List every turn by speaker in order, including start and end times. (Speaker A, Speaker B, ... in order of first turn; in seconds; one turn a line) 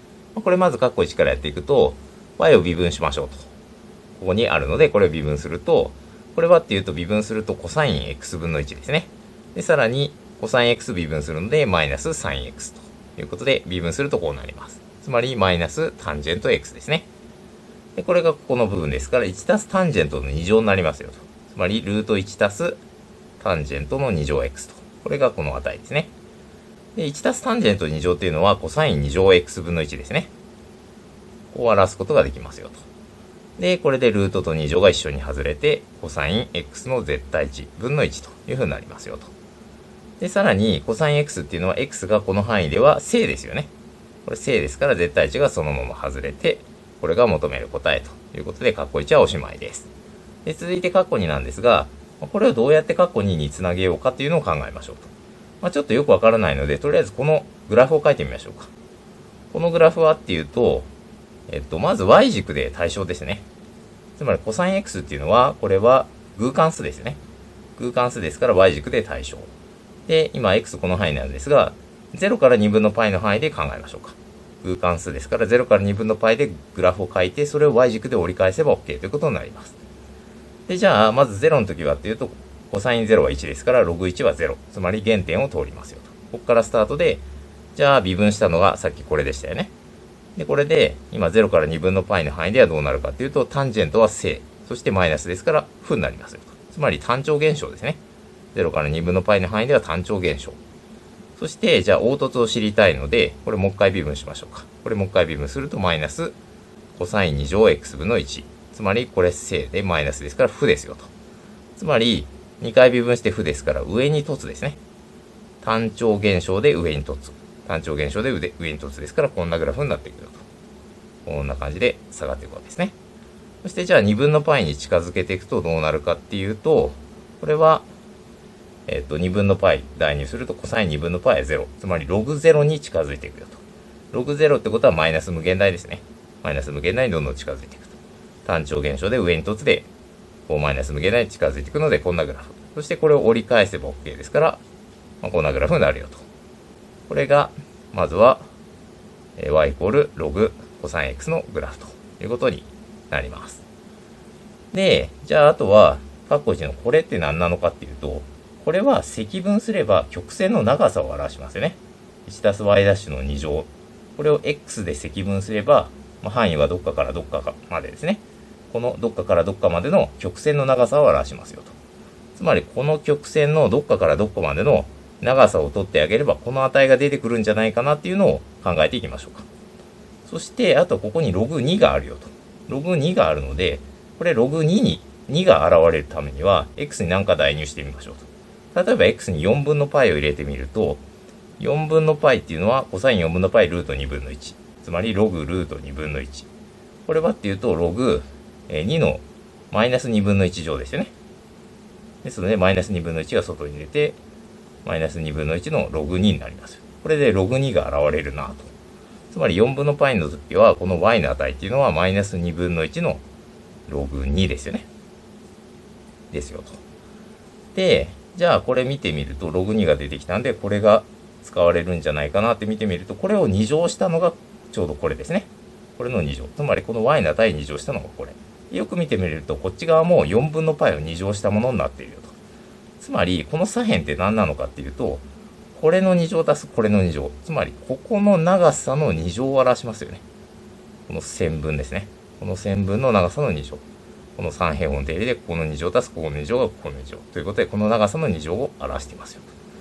Speaker A: 0.3-3.5
Speaker A: 4.2-17.1
Speaker A: 18.0-22.8
Speaker A: 23.4-26.1
Speaker A: 26.9-30.3
Speaker A: 31.5-32.8
Speaker A: 33.6-39.3
Speaker A: 40.2-43.7
Speaker A: 44.2-49.9
Speaker A: 50.5-58.7
Speaker A: 59.5-60.9
Speaker A: 61.5-63.4
Speaker A: 64.2-67.2
Speaker A: 67.8-69.5
Speaker A: 70.1-79.8
Speaker A: 80.7-87.2
Speaker A: 87.7-89.7
Speaker A: 90.4-98.0
Speaker A: 98.5-100.6
Speaker A: 101.4-106.4
Speaker A: 106.9-111.1
Speaker A: 111.8-114.8
Speaker A: 115.6-120.4
Speaker A: 121.3-123.0
Speaker A: 123.6-127.9
Speaker A: 128.9-139.9
Speaker A: 140.5-144.6
Speaker A: 145.2-146.2
Speaker A: 147.1-148.5
Speaker A: 149.4-153.6
Speaker A: 154.7-171.7
Speaker A: 172.4-179.5
Speaker A: 180.3-191.0
Speaker A: 191.6-196.5
Speaker A: 197.1-201.1
Speaker A: 202.2-204.2
Speaker A: 204.8-208.7
Speaker A: 209.3-213.2
Speaker A: 213.9-214.9
Speaker A: 216.3-216.8
Speaker A: 217.8-232.3
Speaker A: 233.0-235.2
Speaker A: 235.8-240.2
Speaker A: 241.1-243.8
Speaker A: 244.4-249.5